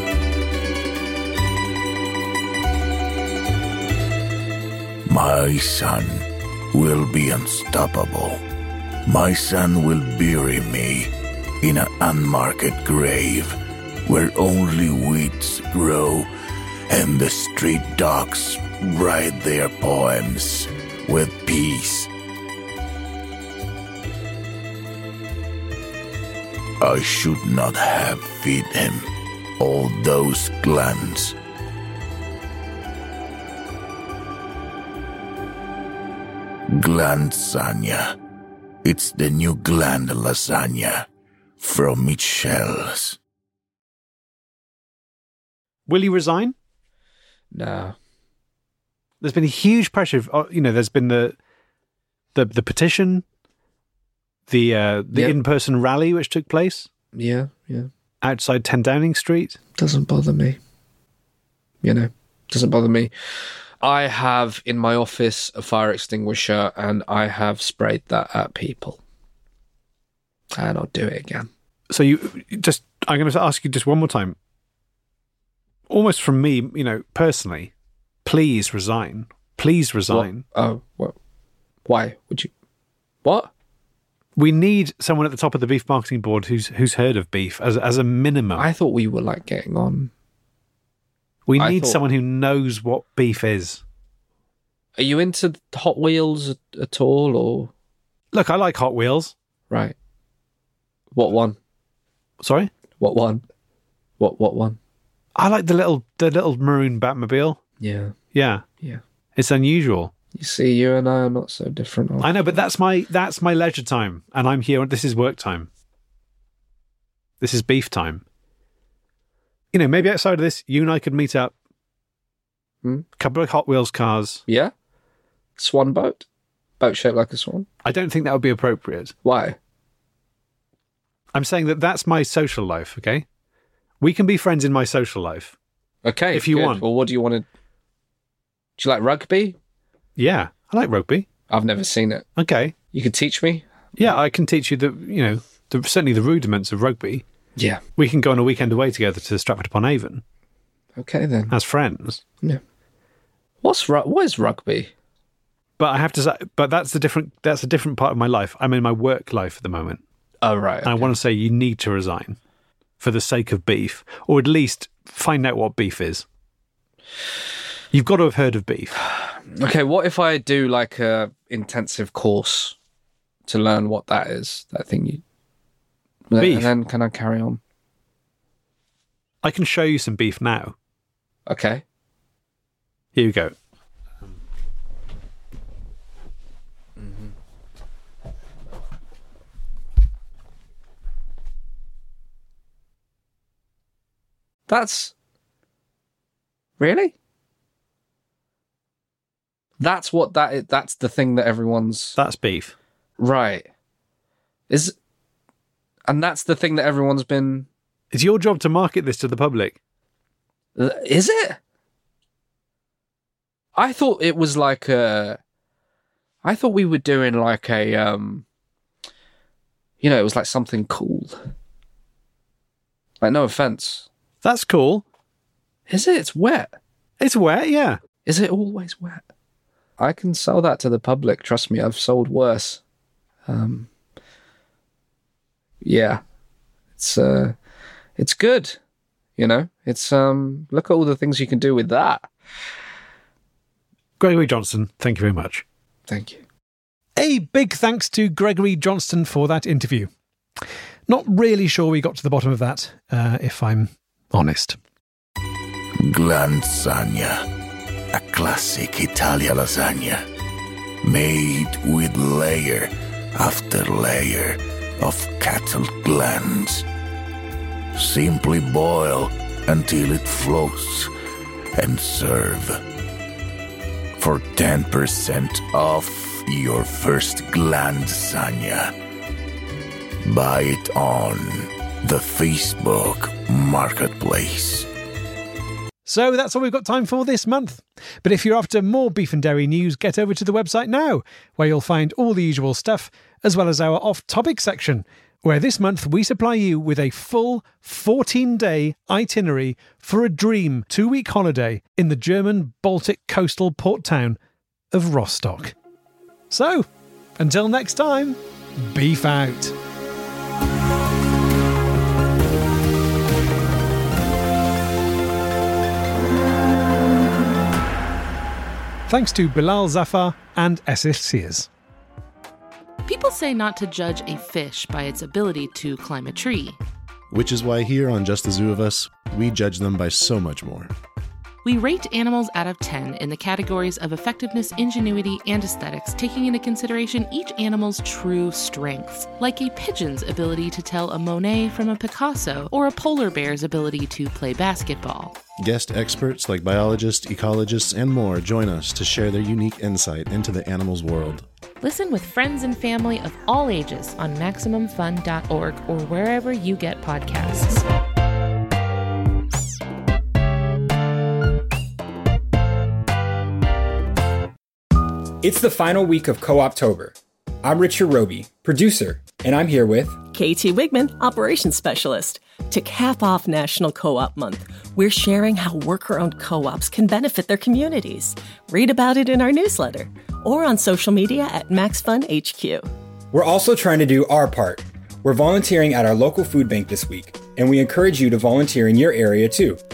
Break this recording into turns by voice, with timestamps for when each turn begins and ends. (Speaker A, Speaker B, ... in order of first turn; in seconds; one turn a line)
Speaker A: 5.1-8.4
Speaker A: 9.1-16.3
Speaker A: 16.9-22.1
Speaker A: 26.8-31.4
Speaker A: 36.7-38.2
Speaker A: 38.8-41.1
Speaker A: 41.6-43.2
Speaker B: 45.9-46.5
Speaker C: 47.5-48.0
Speaker B: 49.2-51.4
Speaker B: 52.4-53.2
Speaker B: 54.5-56.9
Speaker C: 57.1-57.9
Speaker B: 58.2-59.6
Speaker C: 59.8-60.6
Speaker C: 61.8-63.1
Speaker C: 63.8-69.0
Speaker C: 70.6-71.5
Speaker B: 71.9-74.4
Speaker B: 75.9-77.7
Speaker B: 78.2-80.4
Speaker C: 80.1-81.2
Speaker C: 81.9-82.5
Speaker C: 83.2-83.5
Speaker B: 84.4-88.7
Speaker C: 88.6-90.1
Speaker B: 91.5-93.8
Speaker C: 91.6-92.0
Speaker C: 95.0-97.7
Speaker B: 98.3-99.3
Speaker C: 99.7-100.0
Speaker C: 101.1-101.6
Speaker B: 102.4-102.7
Speaker C: 103.0-103.4
Speaker C: 104.2-104.8
Speaker B: 105.4-107.6
Speaker C: 107.8-108.2
Speaker B: 108.3-108.6
Speaker B: 109.4-110.1
Speaker C: 110.3-112.5
Speaker B: 112.2-115.7
Speaker B: 117.4-118.2
Speaker B: 119.7-121.5
Speaker B: 123.2-124.4
Speaker C: 124.5-124.7
Speaker C: 125.6-126.2
Speaker C: 126.8-127.7
Speaker B: 127.8-129.1
Speaker C: 129.2-129.6
Speaker B: 131.3-133.2
Speaker B: 134.0-135.6
Speaker C: 136.0-137.4
Speaker B: 136.3-136.8
Speaker C: 138.8-139.6
Speaker B: 140.2-141.3
Speaker C: 141.5-142.3
Speaker B: 142.4-142.8
Speaker C: 142.9-143.7
Speaker B: 144.0-147.2
Speaker B: 148.0-150.2
Speaker C: 151.0-151.5
Speaker B: 151.5-152.2
Speaker C: 153.6-154.9
Speaker B: 155.8-160.0
Speaker C: 160.4-161.1
Speaker B: 160.8-162.4
Speaker B: 163.0-166.2
Speaker B: 167.9-169.0
Speaker C: 169.1-172.8
Speaker C: 173.5-175.2
Speaker C: 176.3-177.6
Speaker B: 176.4-176.7
Speaker B: 179.4-180.7
Speaker C: 181.5-181.8
Speaker B: 183.2-183.5
Speaker C: 194.7-195.1
Speaker C: 196.8-197.1
Speaker C: 199.8-202.2
Speaker B: 202.2-202.7
Speaker C: 203.2-203.7
Speaker C: 204.7-204.9
Speaker C: 206.1-207.7
Speaker B: 208.1-209.8
Speaker C: 210.8-211.6
Speaker C: 213.8-215.4
Speaker C: 216.4-218.4
Speaker C: 220.0-221.4
Speaker C: 223.2-224.1
Speaker B: 224.4-225.0
Speaker C: 225.9-226.7
Speaker B: 227.2-228.0
Speaker C: 228.2-229.2
Speaker C: 230.0-232.8
Speaker C: 233.5-233.9
Speaker C: 235.8-236.2
Speaker C: 237.0-237.6
Speaker C: 238.2-238.8
Speaker C: 239.4-242.3
Speaker B: 244.2-245.6
Speaker C: 246.1-246.4
Speaker B: 247.2-250.1
Speaker B: 251.1-254.8
Speaker A: 256.0-257.5
Speaker A: 258.1-260.3
Speaker A: 261.0-266.9
Speaker A: 267.9-271.1
Speaker A: 271.8-272.8
Speaker A: 274.2-278.9
Speaker A: 280.2-284.9
Speaker B: 286.1-304.4
Speaker B: 304.9-305.7
Speaker B: 306.5-306.9
Speaker B: 307.4-309.8
Speaker B: 319.1-321.7
Speaker D: 323.1-326.8
Speaker E: 327.3-330.9
Speaker D: 331.6-345.4
Speaker E: 345.6-351.5
Speaker D: 351.8-357.9
Speaker F: 365.4-370.2
Speaker G: 370.3-382.9
Speaker F: 383.3-389.8